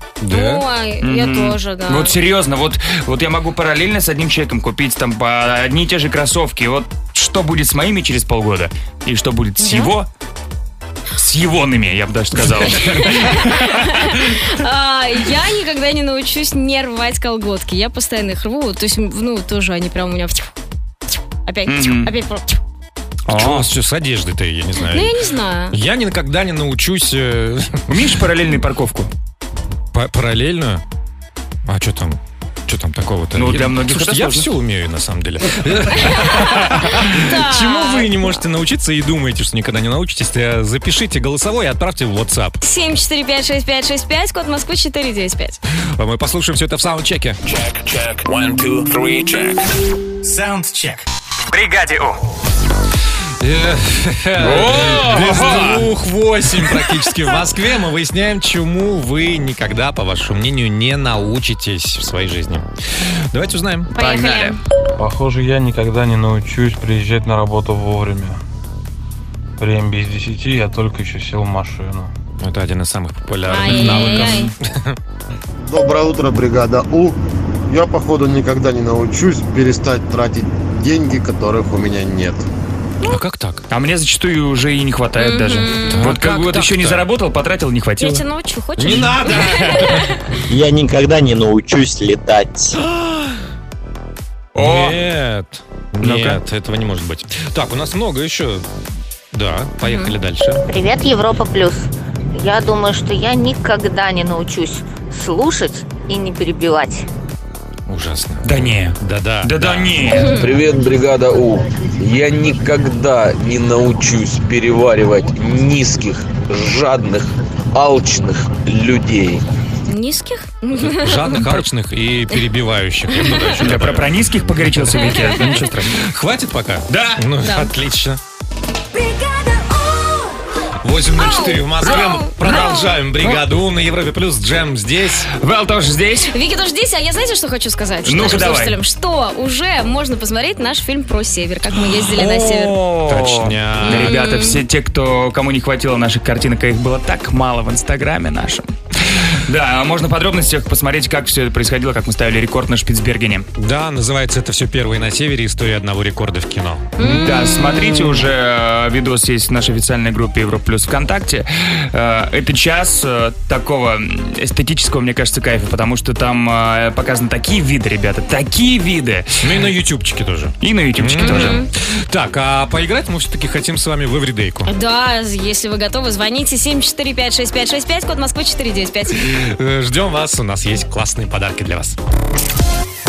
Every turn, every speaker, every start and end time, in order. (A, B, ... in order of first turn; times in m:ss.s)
0:00.2-0:00.6 A
0:00.3-0:02.1 B
0:01.0-0:10.1 C
0:09.6-0:09.9 B
0:11.2-0:14.2 C
0:12.7-0:20.5 B
0:21.5-0:22.6 B
0:21.7-0:22.1 C
0:23.3-0:23.7 C
0:23.3-0:25.1 A
0:24.9-0:25.8 B
0:25.7-0:28.1 A
0:27.9-0:29.1 C
0:29.9-0:30.8 A
0:31.6-0:42.6 A
0:33.3-0:34.5 C
0:36.0-0:38.2 B
0:42.6-0:45.6 B
0:46.0-0:47.4 A
0:47.4-0:52.2 D
0:53.4-1:03.9 A
0:54.4-0:55.9 C
1:03.9-1:04.6 C
1:03.9-1:04.6 B
1:05.0-1:08.4 E
1:09.6-1:12.1 E
1:12.4-1:15.0 A
1:13.5-1:14.5 B
1:13.7-1:14.4 C
1:15.6-1:17.2 F
1:17.7-1:22.5 F
1:23.0-1:23.6 A
1:23.7-1:28.2 C
1:25.2-1:26.1 B
1:25.8-1:27.0 A
1:28.0-1:30.3 B
1:28.8-1:30.1 A
1:30.5-1:32.8 G
1:32.8-1:33.4 A
1:34.5-1:35.0 C
1:34.6-1:38.7 A
1:36.0-1:36.4 C
1:39.3-1:40.6 A
1:39.8-1:40.1 B
1:40.7-1:47.0 H
1:47.9-1:50.0 A
1:48.4-1:50.4 C
1:50.1-1:50.5 B
1:50.3-1:59.4 I
1:59.9-2:01.6 B
2:00.7-2:08.2 A
2:03.1-2:03.5 B
2:03.6-2:05.9 C
2:06.9-2:07.2 C
2:07.4-2:07.7 B
2:10.8-2:15.3 A
2:11.2-2:12.9 B
2:15.3-2:16.3 C
2:16.2-2:22.8 B
2:18.0-2:18.8 C
2:21.9-2:33.5 C
2:23.1-2:24.2 A
2:23.8-2:24.6 B
2:33.6-2:37.3 A
2:37.0-2:38.2 B
2:37.2-2:49.7 C
2:49.4-2:54.7 A
2:50.6-2:51.6 C
2:51.2-2:51.7 B
2:54.7-2:59.3 B
2:59.2-3:02.0 A